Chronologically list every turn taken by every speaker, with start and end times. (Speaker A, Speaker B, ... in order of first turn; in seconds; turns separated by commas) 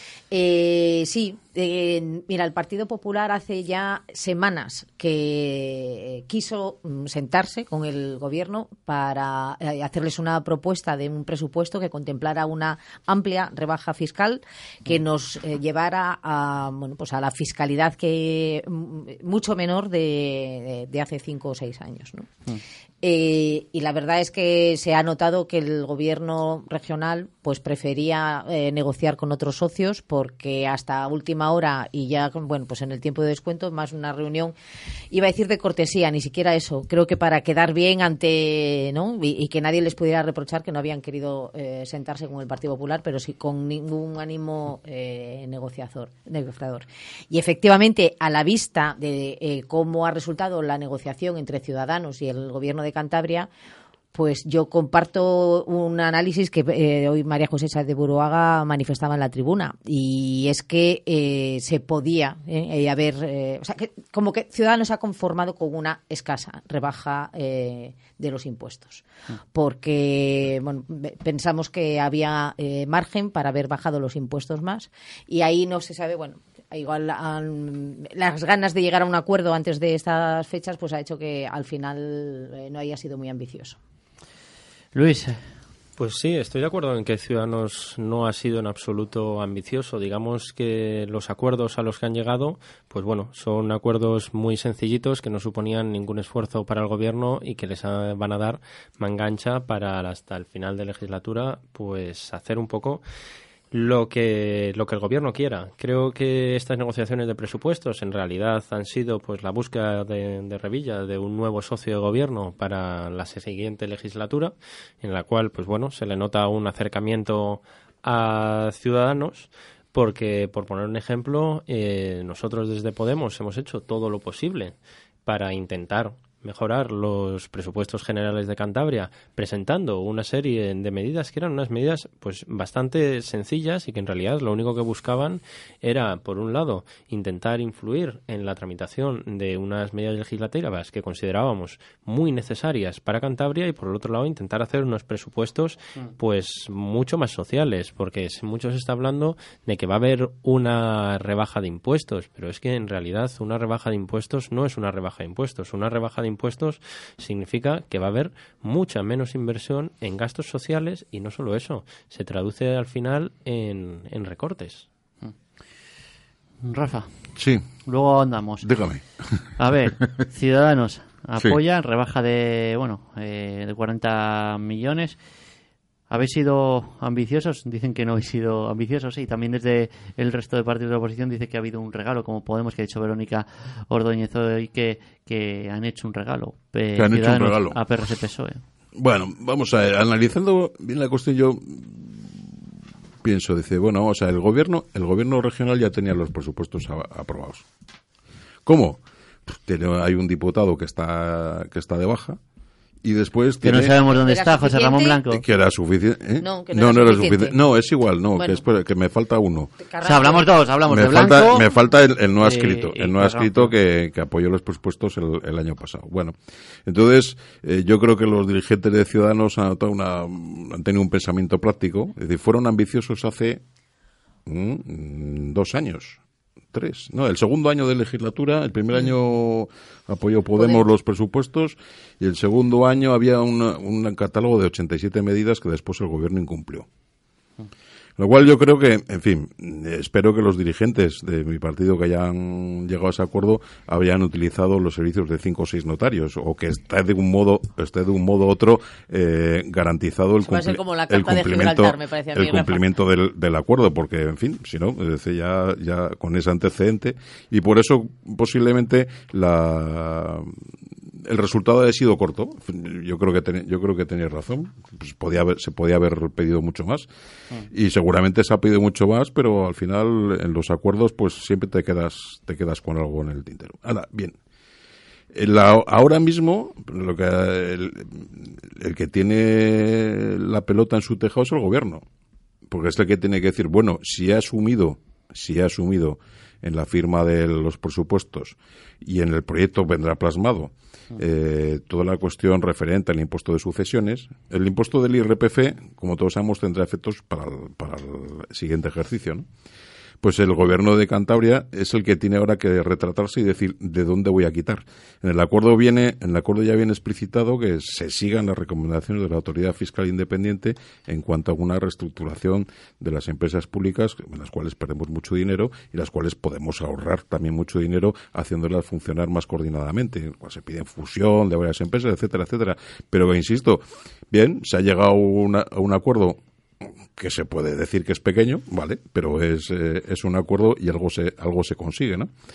Speaker A: 0.3-22.3, Speaker A: 23.0-34.5, Speaker A: 35.1-53.5, Speaker A: 54.1-83.8, Speaker B: 84.9-85.4, Speaker C: 86.0-103.0, Speaker C: 103.7-124.8, Speaker C: 125.3-164.9, Speaker B: 166.6-167.1, Speaker D: 167.4-167.6, Speaker B: 167.8-168.7, Speaker D: 168.6-169.5, Speaker B: 169.6-175.2, Speaker B: 176.1-188.6, Speaker D: 187.0-187.8, Speaker D: 189.0-192.6, Speaker D: 193.2-197.7, Speaker D: 198.7-202.4, Speaker D: 203.0-203.9, Speaker B: 203.6-205.4, Speaker A: 204.1-205.2, Speaker D: 205.3-209.7, Speaker A: 206.4-207.6, Speaker A: 209.8-210.5, Speaker B: 210.0-211.7, Speaker D: 210.9-216.3, Speaker B: 212.4-213.7, Speaker D: 216.9-223.6, Speaker D: 224.5-226.2, Speaker D: 226.7-236.9, Speaker A: 230.6-230.8, Speaker D: 238.2-260.6, Speaker A: 250.4-252.8, Speaker D: 261.1-267.1, Speaker D: 267.7-274.4, Speaker D: 275.3-282.1, Speaker D: 282.7-299.5, Speaker D: 300.2-332.3